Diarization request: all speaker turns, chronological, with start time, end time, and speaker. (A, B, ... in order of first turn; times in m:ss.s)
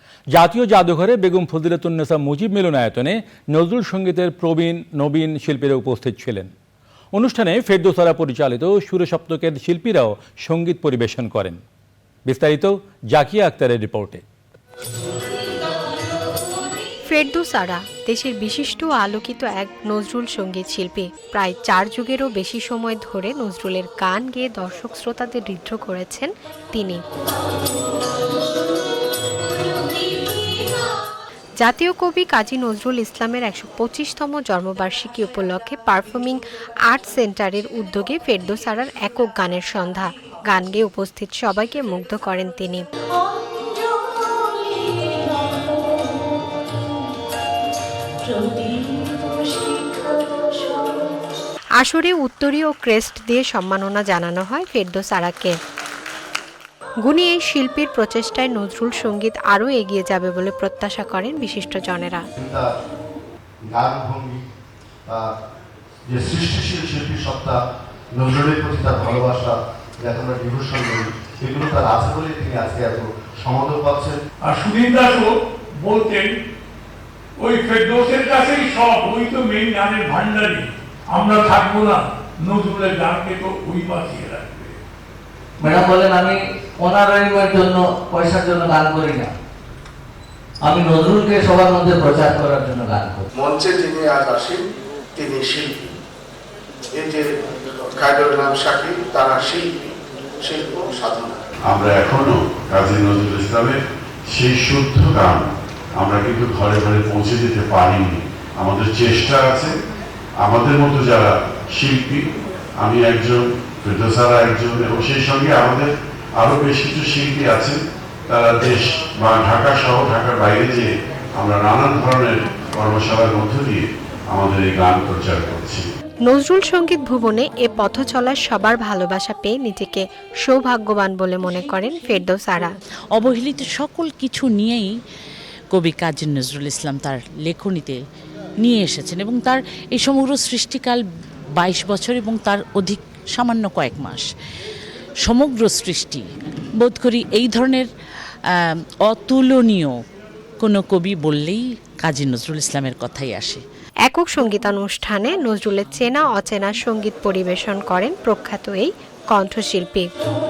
0:00.3-0:06.5 A
0:07.1-0:11.6 A
0:12.2-0:14.2 A
0:17.1-0:27.0 B
0:31.6-0:42.8 B
0:43.4-0:46.0 C
0:48.2-0:51.1 C
0:51.8-0:55.6 B
0:57.0-1:02.2 B
1:02.4-1:02.7 D
1:03.7-1:04.4 D
1:06.1-1:07.6 D
1:08.1-1:14.2 D
1:14.4-1:16.4 E
1:17.4-1:24.8 E
1:25.6-1:29.3 F
1:30.6-1:33.2 F
1:33.3-1:34.6 G
1:35.1-1:35.9 G
1:36.9-1:41.4 G
1:41.7-1:43.8 H
1:44.3-1:45.4 H
1:46.0-1:49.7 H
1:50.4-1:52.2 H
1:52.8-1:57.8 H
1:58.3-2:05.8 H
2:06.3-2:12.7 B
2:13.1-2:14.9 C
2:15.7-2:18.0 C
2:18.6-2:21.0 C
2:21.6-2:24.2 C
2:25.2-2:26.2 C
2:26.8-2:27.9 C
2:28.5-2:29.9 C
2:30.6-2:33.6 C
2:34.1-2:40.1 B